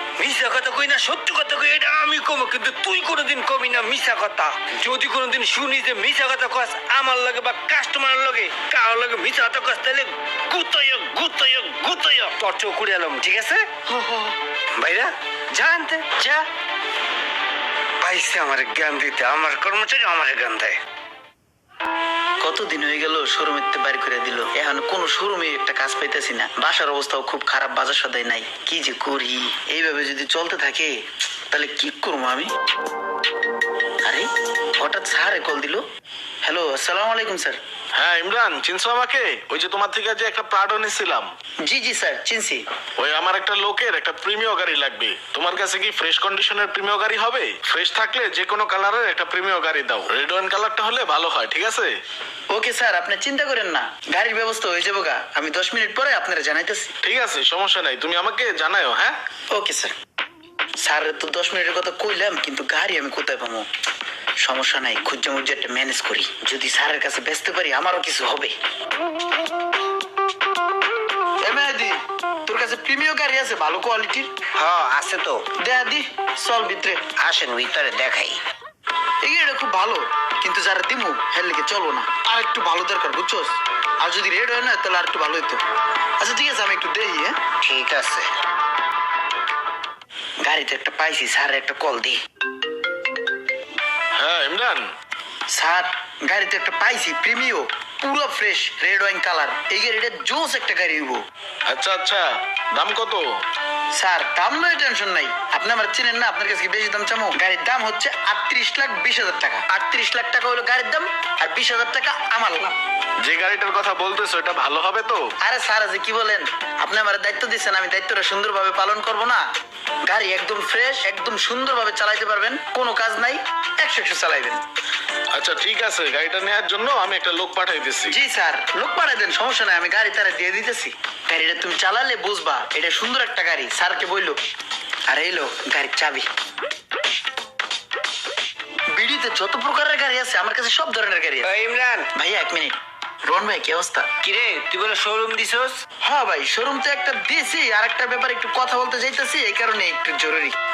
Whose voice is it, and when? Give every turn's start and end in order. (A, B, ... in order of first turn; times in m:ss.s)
0:00.2-0:16.4 A
0:18.0-0:20.8 A
0:22.4-0:31.0 B
0:31.5-0:32.5 B
0:34.0-0:35.8 B
0:36.4-0:37.6 B
0:38.0-0:41.3 C
0:41.6-0:42.6 B
0:43.0-0:51.9 C
0:52.5-0:56.9 B
0:57.0-0:59.2 C
0:59.5-0:59.9 B
1:00.8-1:03.7 B
1:04.4-1:08.5 B
1:11.4-1:14.3 B
1:14.6-1:15.4 A
1:15.6-1:17.0 B
1:17.2-1:18.4 A
1:19.2-1:25.6 B
1:26.2-1:27.4 B
1:27.6-1:28.3 A
1:30.4-1:32.2 B
1:34.2-1:34.9 C
1:35.5-1:41.2 B
1:41.7-1:43.2 C
1:44.0-1:52.7 B
1:53.2-1:55.2 C
1:55.4-1:59.4 B
2:00.1-2:04.6 B
2:05.3-2:08.2 C
2:08.0-2:14.4 B
2:15.1-2:16.3 B
2:18.9-2:21.5 B
2:21.4-2:22.1 A
2:22.1-2:24.1 B
2:24.2-2:25.8 A
2:26.0-2:30.5 B